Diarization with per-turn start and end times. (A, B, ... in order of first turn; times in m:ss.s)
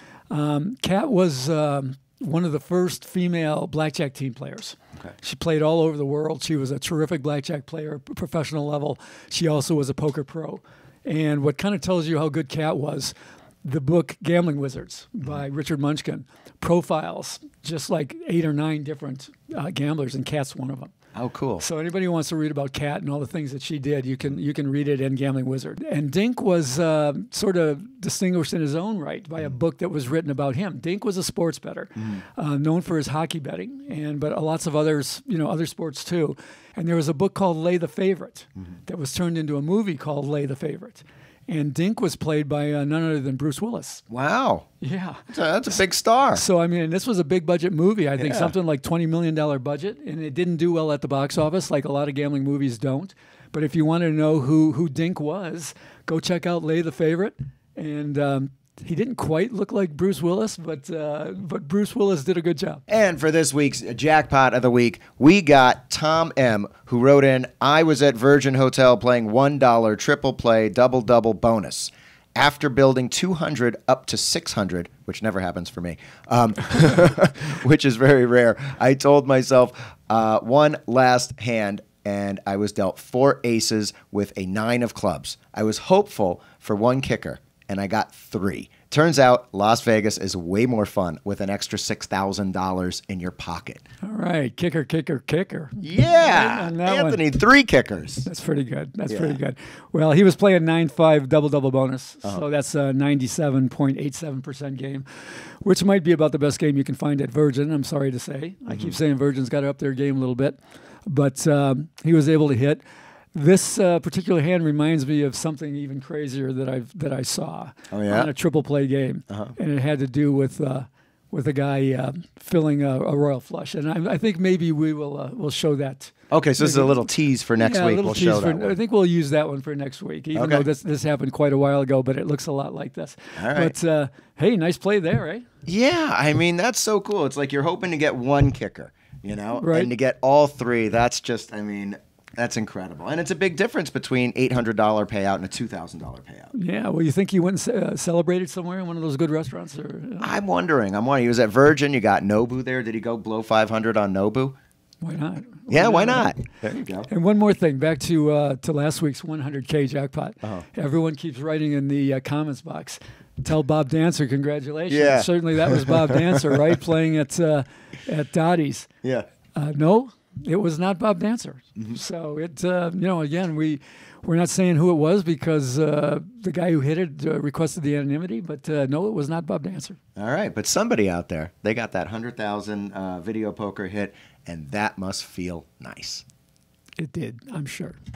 0:00.3-0:20.9 A
0:21.1-0:21.6 B
0:21.6-0:44.0 A
0:44.1-0:44.6 B
0:44.8-0:45.2 A
0:45.3-0:46.4 B
0:46.3-1:02.8 A
0:48.2-0:48.5 B
1:02.9-1:33.8 B
1:34.0-1:37.2 A
1:35.8-1:38.3 B
1:38.2-1:45.0 A
1:39.1-1:39.4 B
1:45.6-1:52.8 A
1:48.7-1:49.0 B
1:53.3-2:07.0 A
1:57.9-1:58.3 B
1:59.3-1:59.5 B
2:06.3-2:08.8 B
2:07.6-2:15.4 A
2:10.3-2:10.6 B
2:13.4-2:13.7 B
2:15.6-2:26.5 B
2:19.5-2:19.9 A
2:26.5-2:30.3 A
2:30.2-2:34.6 B
2:35.0-2:36.3 A
2:35.7-2:37.1 B
2:37.0-2:48.9 A
2:44.9-2:46.4 B
2:49.5-3:00.0 A
3:00.2-3:06.2 B
3:07.0-3:08.0 A